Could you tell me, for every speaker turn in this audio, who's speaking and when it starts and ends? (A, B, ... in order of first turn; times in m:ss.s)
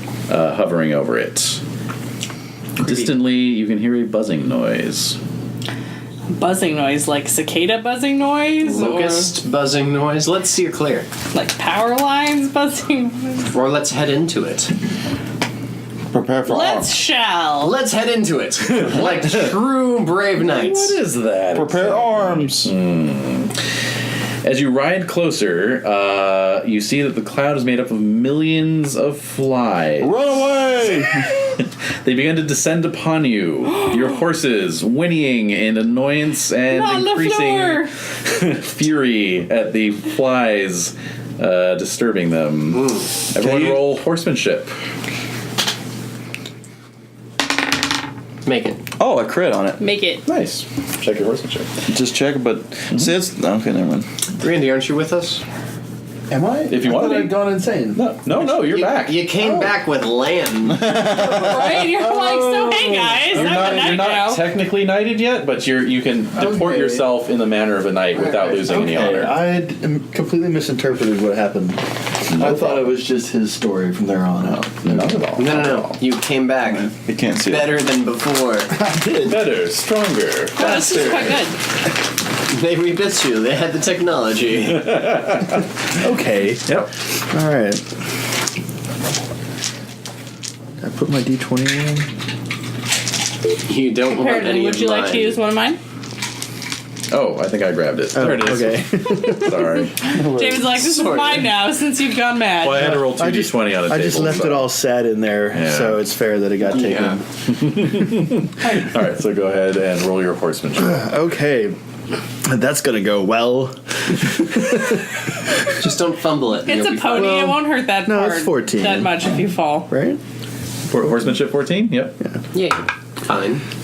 0:00.3-0:01.6 A
0:02.8-0:05.2 A
0:02.8-0:03.1 B
0:06.3-0:09.4 C
0:08.6-0:11.1 B
0:11.3-0:13.5 C
0:13.5-0:14.7 B
0:16.1-0:16.8 D
0:16.5-0:17.8 C
0:17.6-0:21.0 B
0:20.4-0:23.6 A
0:21.5-0:22.7 D
0:24.4-0:30.3 A
0:30.0-0:31.3 D
0:31.6-0:44.7 A
0:36.7-0:37.9 C
0:42.7-0:43.2 B
0:43.4-0:43.8 D
0:48.4-0:48.8 B
0:49.0-0:49.8 D
0:49.3-0:49.7 E
0:49.8-0:50.2 C
0:50.3-0:51.8 A
0:51.9-0:54.0 D
0:53.1-0:54.0 E
0:54.4-0:55.4 B
0:56.3-0:58.0 E
0:56.7-0:59.2 A
0:58.4-1:00.9 B
0:59.4-0:59.8 E
1:01.1-1:04.5 C
1:01.2-1:03.9 E
1:03.3-1:09.4 A
1:06.4-1:07.1 E
1:08.2-1:15.2 E
1:12.3-1:12.9 A
1:14.7-1:16.0 A
1:15.4-1:18.7 B
1:16.8-1:17.8 D
1:18.7-1:19.4 E
1:19.2-1:20.6 A
1:20.6-1:21.6 C
1:20.6-1:21.4 B
1:22.5-1:24.9 B
1:24.8-1:25.6 A
1:26.0-1:26.7 E
1:27.3-1:27.8 E
1:30.8-1:32.1 E
1:33.7-1:35.4 B
1:34.1-1:35.8 C
1:37.1-1:40.0 A
1:38.1-1:39.6 E
1:39.8-1:43.0 C
1:40.7-1:41.5 B
1:42.6-1:44.8 A
1:42.8-1:47.2 E
1:45.5-1:46.0 A
1:46.7-1:47.2 B
1:47.5-1:51.1 A
1:50.8-1:51.8 E
1:52.5-1:55.1 E
1:55.8-1:57.4 B
1:56.7-1:59.9 C
1:57.1-1:59.2 E
1:59.9-2:00.2 E
2:00.9-2:02.2 A
2:02.5-2:03.6 B